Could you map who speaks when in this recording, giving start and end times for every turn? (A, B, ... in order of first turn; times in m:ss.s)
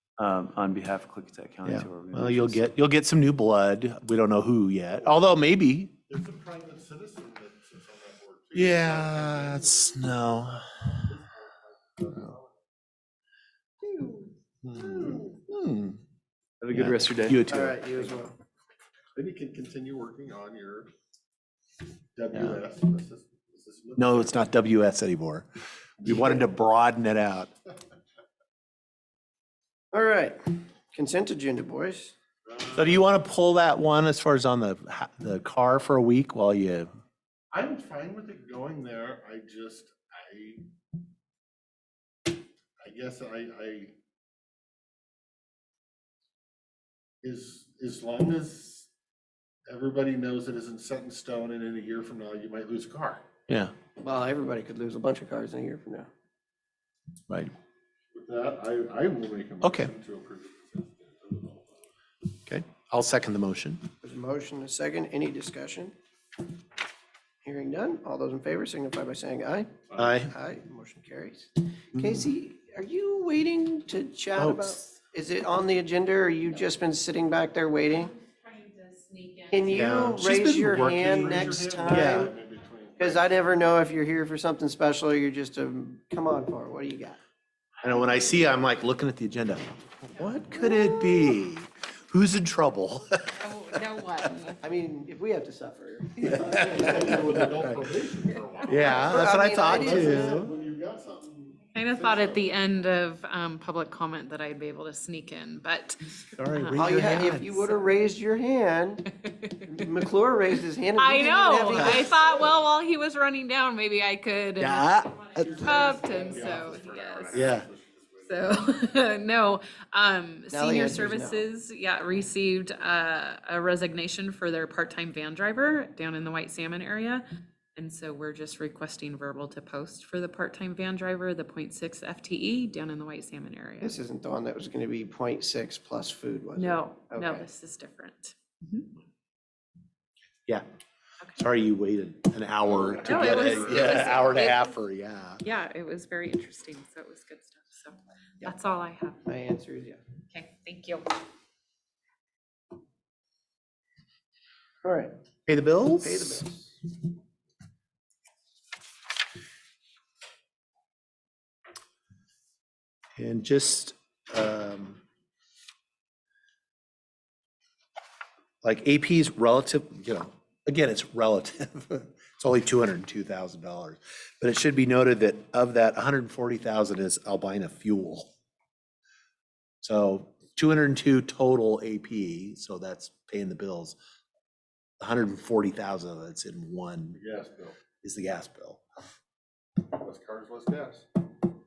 0:00.2-0:02.7 A
0:01.6-0:06.0 B
0:06.1-0:12.6 C
0:08.5-0:10.7 B
0:13.8-0:15.4 D
0:14.6-0:16.0 B
0:16.6-0:17.4 A
0:16.7-0:17.9 B
0:17.5-0:18.4 D
0:19.1-0:20.9 C
0:22.1-0:24.4 C
0:22.3-0:22.6 B
0:24.0-0:25.5 B
0:26.0-0:27.5 B
0:29.9-0:30.4 D
0:30.9-0:32.1 D
0:32.4-0:33.1 C
0:32.7-0:36.9 B
0:37.5-0:40.7 C
0:42.8-0:44.0 C
0:47.2-0:48.9 C
0:49.7-0:53.2 C
0:53.5-0:53.7 B
0:54.0-0:56.1 D
0:58.1-1:01.8 C
0:59.6-0:59.9 B
1:02.5-1:03.8 B
1:04.0-1:05.9 D
1:07.4-1:18.1 D
1:10.0-1:10.3 B
1:14.4-1:14.8 B
1:18.0-1:20.1 E
1:19.5-1:22.4 D
1:19.7-1:22.3 B
1:20.2-1:23.7 C
1:23.0-1:27.2 D
1:27.8-1:33.4 B
1:28.1-1:28.4 C
1:33.4-1:34.6 E
1:34.6-1:37.2 D
1:36.2-1:42.4 C
1:36.2-1:37.8 B
1:38.6-1:40.5 B
1:38.7-1:40.4 D
1:41.7-1:47.8 E
1:46.4-1:47.5 B
1:46.8-1:49.1 D
1:49.2-1:49.7 E
1:49.7-1:52.4 D
1:51.0-1:57.6 E
1:54.6-1:55.7 B
1:55.4-1:58.7 C
1:57.3-1:57.7 B
1:58.3-2:07.2 E
2:00.5-2:01.4 D
2:07.8-2:13.9 E
2:13.8-2:17.5 D
2:16.6-2:18.8 E
2:21.4-2:25.4 B
2:22.6-2:24.4 C
2:23.0-2:24.8 E
2:25.4-2:29.2 E
2:29.2-2:30.0 D
2:30.3-2:31.1 E
2:34.8-2:35.1 D
2:35.4-2:36.5 B
2:36.0-2:36.7 D
2:43.2-2:45.0 B
2:48.6-2:58.3 B
2:59.8-3:04.0 B
3:05.0-3:07.2 B
3:07.1-3:07.8 C
3:08.0-3:08.8 B
3:09.8-3:11.1 C